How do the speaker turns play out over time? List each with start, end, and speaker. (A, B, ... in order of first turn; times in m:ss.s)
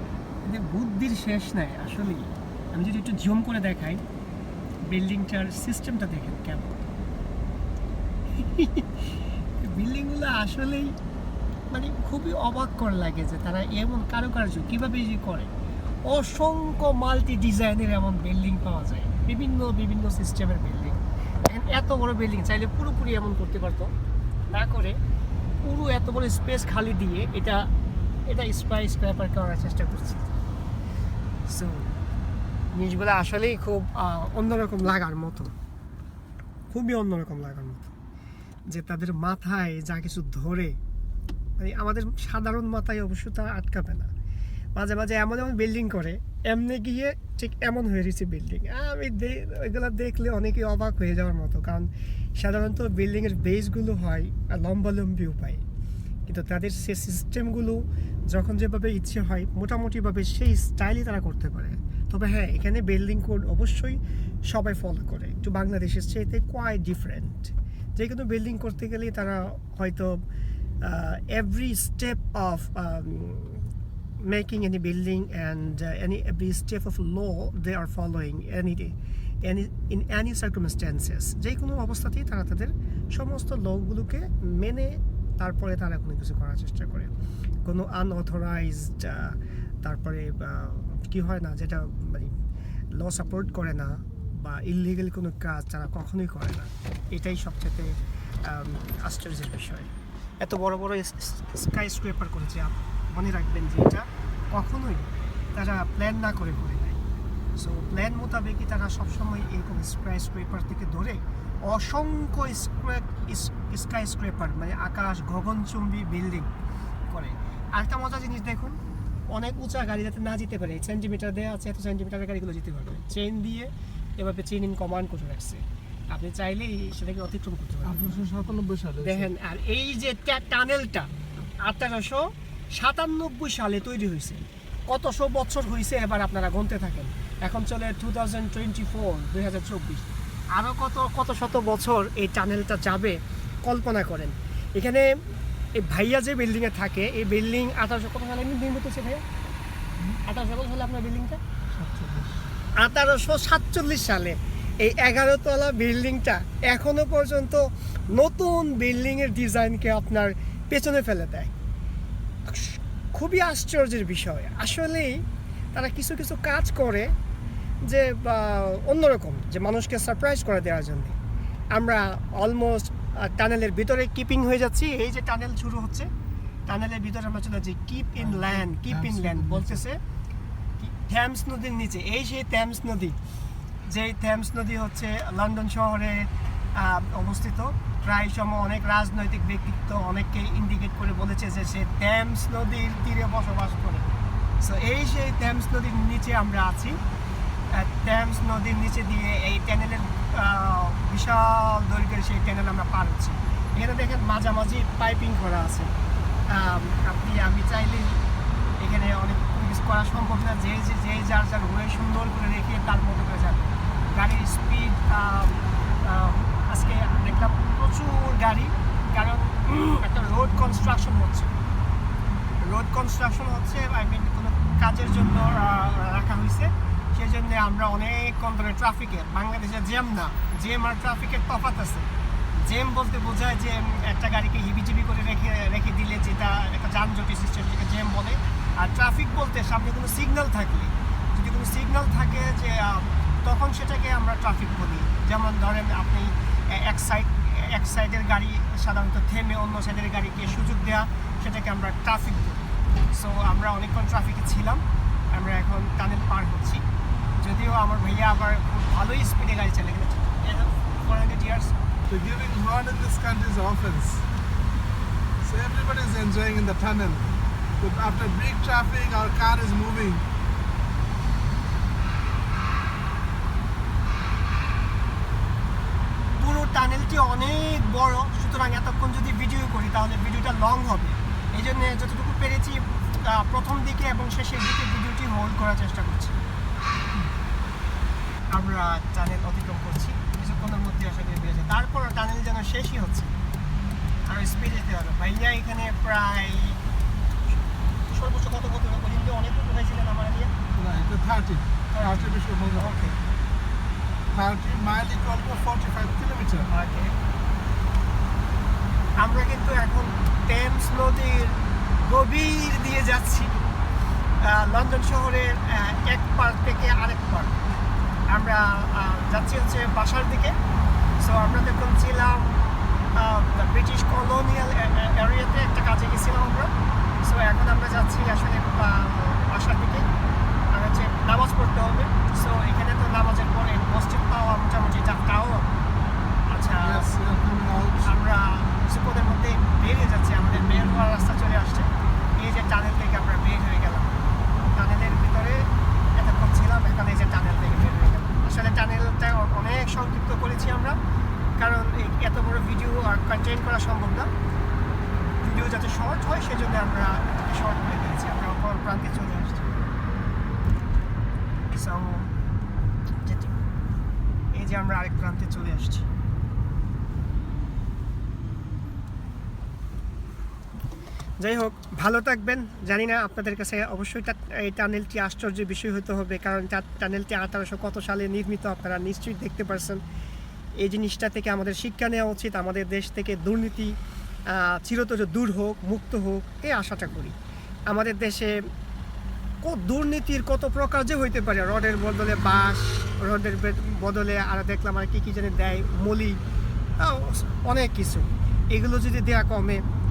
0:00.4-0:04.0 A
0:04.9-0:06.9 A
0:08.3-0:09.0 A
0:09.6-0:11.0 A
0:11.7-0:15.5 A
0:16.0-0:23.9 A
0:24.5-0:25.0 A
0:25.6-0:27.7 A
0:28.3-0:30.3 A
0:31.5-0:31.9 A
0:32.7-0:35.5 A
0:36.7-0:37.9 A
0:38.7-0:40.8 A
0:41.6-0:44.1 A
0:44.8-0:55.6 A
0:56.3-1:10.2 A
1:10.8-1:13.7 A
1:14.2-1:27.1 A
1:27.6-1:32.4 A
1:32.9-1:47.0 A
1:47.6-1:56.5 A
1:57.1-2:08.3 A
2:07.9-2:09.2 B
2:09.0-2:11.1 A
2:11.6-2:25.1 A
2:25.8-2:29.2 A
2:30.2-2:31.4 A
2:31.7-2:32.4 B
2:32.8-2:41.5 A
2:42.4-2:47.1 A
2:47.8-2:51.2 A
2:51.7-2:56.1 A
2:56.7-3:00.0 A
2:58.8-2:59.6 B
3:00.8-3:03.2 A
3:03.8-3:17.0 A
3:17.7-3:25.9 A
3:26.5-3:28.2 A
3:28.8-3:41.5 A
3:42.6-4:16.8 A
4:17.4-4:21.7 A
4:22.1-4:24.2 B
4:25.4-4:30.2 B
4:36.4-4:46.4 A
4:48.5-4:53.4 A
4:54.2-4:56.8 A
4:57.5-5:00.5 A
5:00.7-5:01.6 B
5:01.9-5:03.2 A
5:02.2-5:02.8 B
5:04.3-5:06.7 B
5:06.6-5:07.2 A
5:09.2-5:13.6 A
5:14.4-5:17.6 A
5:18.3-5:20.6 A
5:21.2-5:30.0 A
5:30.7-5:35.8 A
5:36.5-5:37.1 A
5:36.8-5:38.0 B
5:38.0-5:44.2 A
5:44.7-5:51.0 A
5:51.6-5:54.3 A
5:55.3-5:59.8 A
6:01.7-6:02.3 A
6:03.2-6:03.6 A
6:04.5-6:06.1 A
6:11.4-6:20.0 A
6:20.8-6:24.0 A
6:24.5-6:27.3 A
6:27.9-6:28.6 A
6:29.6-6:36.4 A
6:37.0-6:39.8 A